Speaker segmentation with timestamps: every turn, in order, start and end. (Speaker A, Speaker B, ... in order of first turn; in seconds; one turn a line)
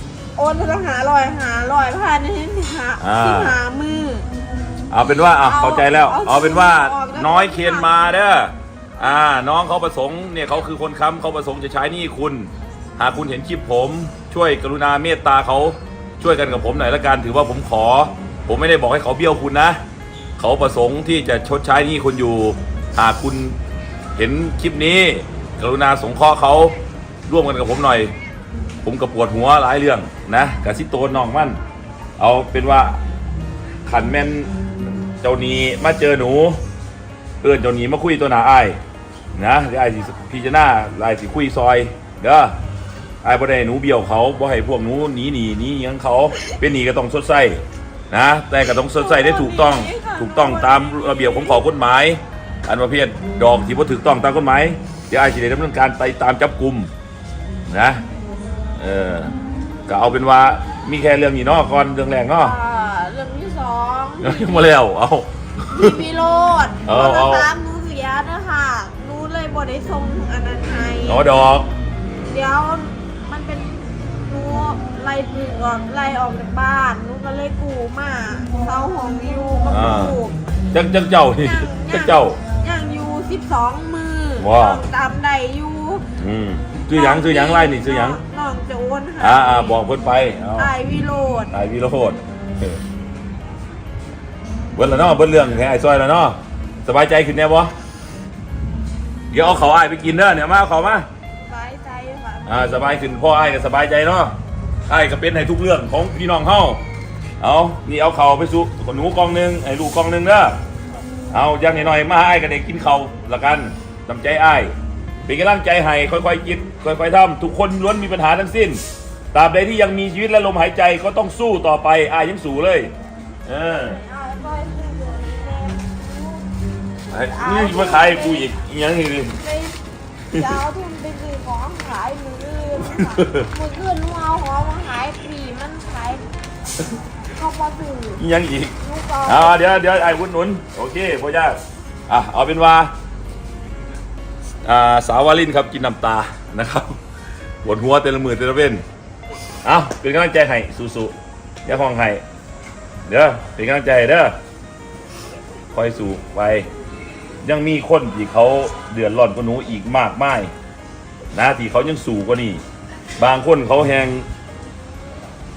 Speaker A: 0.3-4.3
Speaker B: 3.0-3.5
Speaker B: 4.9-19.8
Speaker A: 5.3-8.0
Speaker B: 20.4-23.6
Speaker B: 24.1-26.7
Speaker B: 27.3-28.1
Speaker B: 28.8-31.6
Speaker B: 32.2-33.0
Speaker B: 33.9-34.5
Speaker B: 35.2-36.6
Speaker B: 37.4-38.8
Speaker B: 39.3-42.5
Speaker B: 43.2-56.9
Speaker A: 48.7-51.7
Speaker B: 57.7-58.0
Speaker B: 58.8-59.3
Speaker B: 59.9-62.5
Speaker A: 62.4-64.7
Speaker B: 64.2-66.0
Speaker A: 65.7-71.3
Speaker B: 66.8-67.5
Speaker B: 71.1-71.7
Speaker A: 72.2-80.3
Speaker B: 79.7-80.2
Speaker B: 80.7-82.4
Speaker A: 81.3-86.0
Speaker B: 84.4-84.8
Speaker B: 86.2-88.2
Speaker A: 86.9-89.8
Speaker B: 89.2-90.7
Speaker A: 90.5-91.5
Speaker B: 91.5-92.8
Speaker B: 94.7-97.7
Speaker B: 99.3-101.0
Speaker A: 101.4-103.0
Speaker B: 102.5-104.3
Speaker B: 104.9-106.8
Speaker B: 107.4-110.6
Speaker B: 111.3-114.7
Speaker B: 115.2-118.8
Speaker B: 119.3-122.9
Speaker B: 123.5-124.0
Speaker A: 123.8-126.5
Speaker A: 127.1-128.5
Speaker B: 127.1-129.4
Speaker A: 129.4-129.8
Speaker A: 130.3-136.2
Speaker B: 133.0-133.5
Speaker A: 137.3-138.2
Speaker B: 138.2-142.9
Speaker A: 138.8-139.6
Speaker B: 144.6-147.0
Speaker B: 147.6-148.8
Speaker B: 149.6-151.1
Speaker B: 151.6-152.2
Speaker B: 153.1-154.3
Speaker B: 155.7-156.7
Speaker B: 157.4-160.5
Speaker B: 161.3-162.6
Speaker B: 163.2-164.2